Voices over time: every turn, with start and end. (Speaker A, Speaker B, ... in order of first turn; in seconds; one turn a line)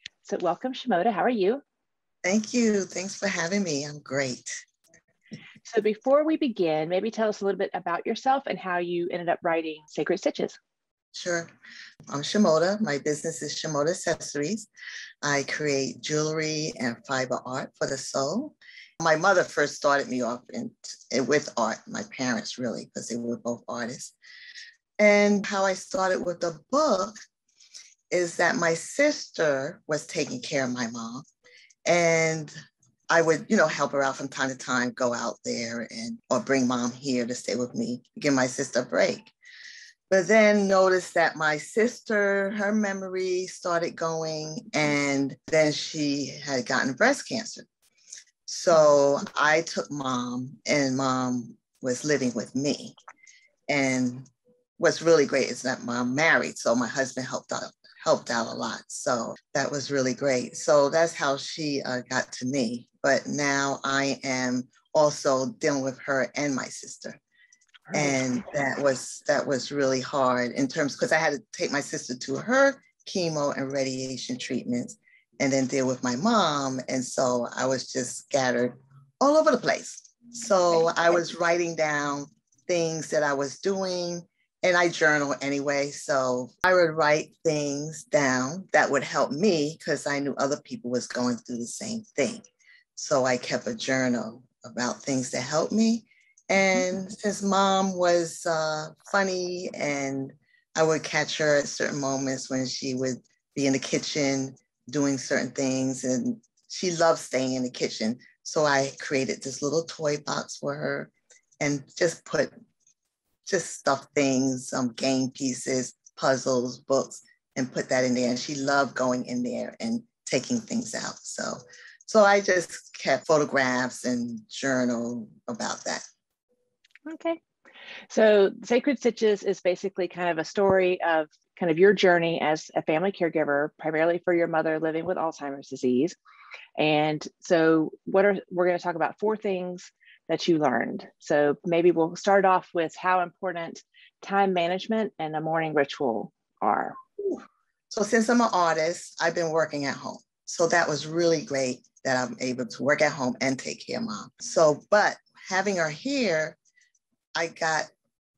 Speaker A: 0.2-1.6
Speaker B: 2.2-4.6
Speaker A: 5.7-10.6
Speaker B: 11.1-11.5
Speaker B: 12.1-14.7
Speaker B: 15.2-24.1
Speaker B: 25.0-27.2
Speaker B: 28.1-31.2
Speaker B: 31.9-32.5
Speaker B: 33.1-39.3
Speaker B: 40.1-47.7
Speaker B: 48.5-53.0
Speaker B: 53.7-67.2
Speaker A: 67.9-68.3
Speaker B: 67.9-112.5
Speaker A: 80.7-81.2
Speaker B: 113.5-126.0
Speaker A: 127.1-127.4
Speaker A: 128.1-136.2
Speaker A: 136.8-147.0
Speaker B: 147.2-156.6
Speaker B: 157.3-157.9